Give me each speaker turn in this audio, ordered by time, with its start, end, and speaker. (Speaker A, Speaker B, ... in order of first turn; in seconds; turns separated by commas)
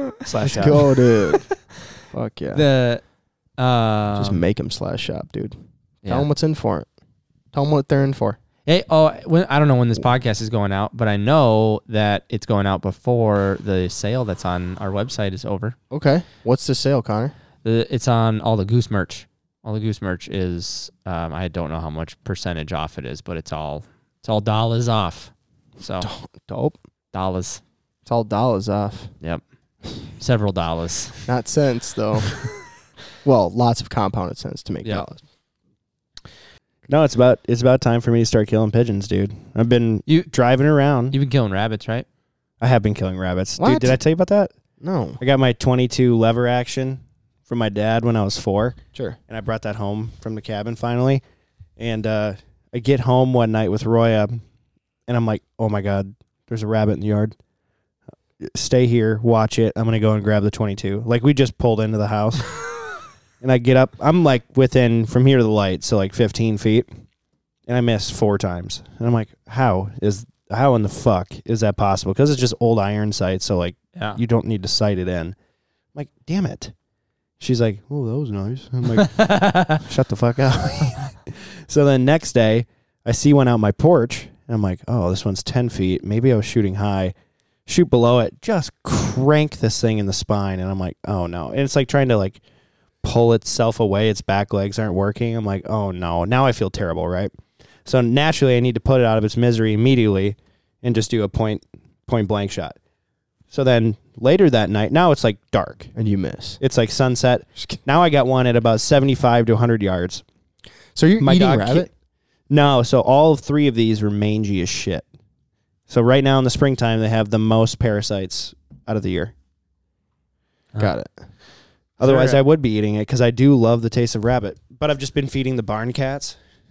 Speaker A: 0.1-0.9, Speaker B: 0.4-1.5, Speaker B: 2.1-2.6, Speaker C: 2.5-3.0, Speaker C: 3.6-4.4, Speaker B: 4.2-5.5, Speaker B: 6.1-6.9, Speaker B: 7.5-8.4, Speaker C: 8.7-15.8, Speaker B: 15.9-17.3, Speaker C: 17.6-26.1, Speaker B: 26.0-26.8, Speaker C: 27.1-27.6, Speaker B: 28.1-29.1, Speaker C: 30.1-31.3, Speaker B: 31.3-32.3, Speaker B: 33.2-35.2, Speaker A: 36.9-41.1, Speaker C: 41.1-42.1, Speaker A: 42.6-44.5, Speaker B: 43.6-44.0, Speaker B: 44.8-45.2, Speaker A: 45.2-51.2, Speaker A: 51.8-54.4, Speaker A: 55.1-57.4, Speaker A: 58.4-62.5, Speaker A: 63.4-66.9, Speaker A: 67.7-75.3, Speaker A: 76.0-76.7, Speaker A: 77.4-87.1, Speaker C: 79.0-79.8, Speaker A: 87.7-92.4, Speaker A: 93.0-97.3, Speaker A: 97.8-102.8, Speaker A: 103.5-105.9, Speaker B: 106.0-106.6, Speaker A: 106.6-110.2, Speaker B: 111.0-111.9, Speaker A: 111.2-111.9, Speaker A: 112.5-115.0, Speaker A: 115.9-119.3, Speaker B: 120.8-121.2, Speaker A: 122.0-126.4, Speaker C: 122.0-122.4